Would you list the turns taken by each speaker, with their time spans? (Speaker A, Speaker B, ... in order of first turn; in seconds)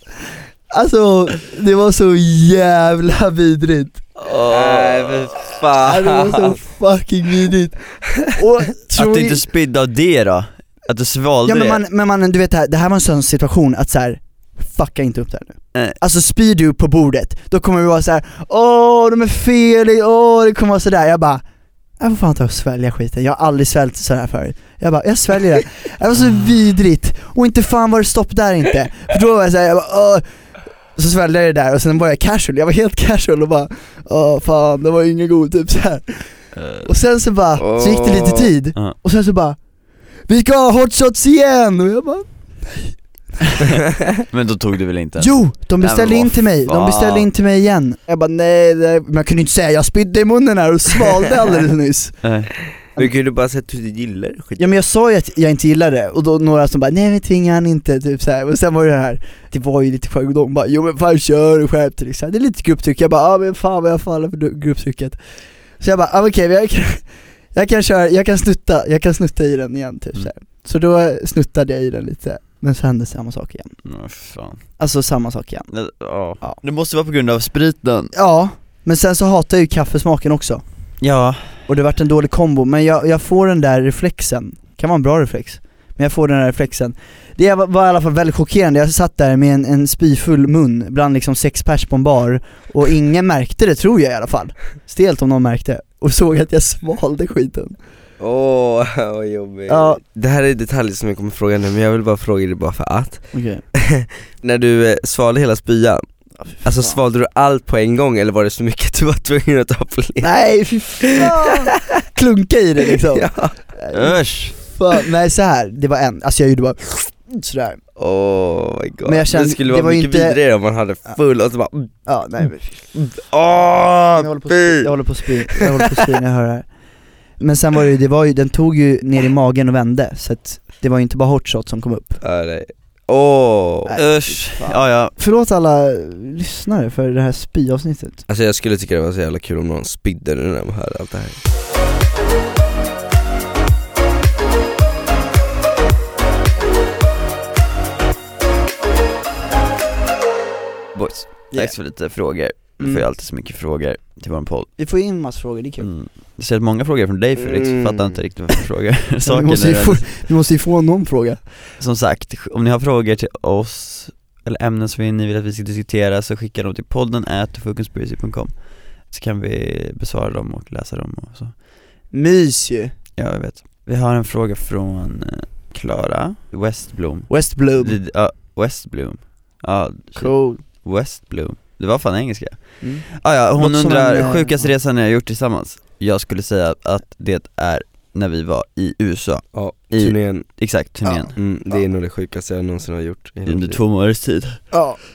Speaker A: 0.7-4.0, 5.7-9.4, 11.4-21.4, 22.0-30.2, 30.9-36.3, 36.8-39.6, 40.3-43.0, 45.2-52.2, 54.6-65.2, 65.8-67.0, 67.5-73.8, 74.8-75.7, 78.1-80.6, 81.7-97.8, 99.7-100.0, 103.3-103.6, 106.5-107.0, 110.2-117.8, 119.0-120.4, 122.0-122.8, 124.2-126.7, 127.4-132.2, 133.8-138.2, 154.8-155.9, 159.2-161.4, 172.1-172.9, 177.3-178.0, 180.2-180.6, 182.8-184.7, 191.1-191.3, 194.7-195.0
Speaker B: 4.3-5.2, 8.9-11.8, 36.5-36.9, 44.3-47.3, 52.2-52.5, 73.8-74.6, 75.7-78.1, 81.0-81.5, 113.9-114.5, 133.9-135.1, 150.9-154.7, 155.8-160.3, 161.8-171.5, 173.2-191.3, 193.4-194.8
Speaker C: 4.3-6.6, 37.6-38.5, 53.0-54.7, 98.2-106.0, 106.6-110.3, 111.0-111.7, 113.1-113.5, 118.0-121.9, 122.9-124.9, 125.5-125.7, 132.2-133.9, 138.3-141.4, 157.4-158.2, 189.5-190.5, 191.3-193.8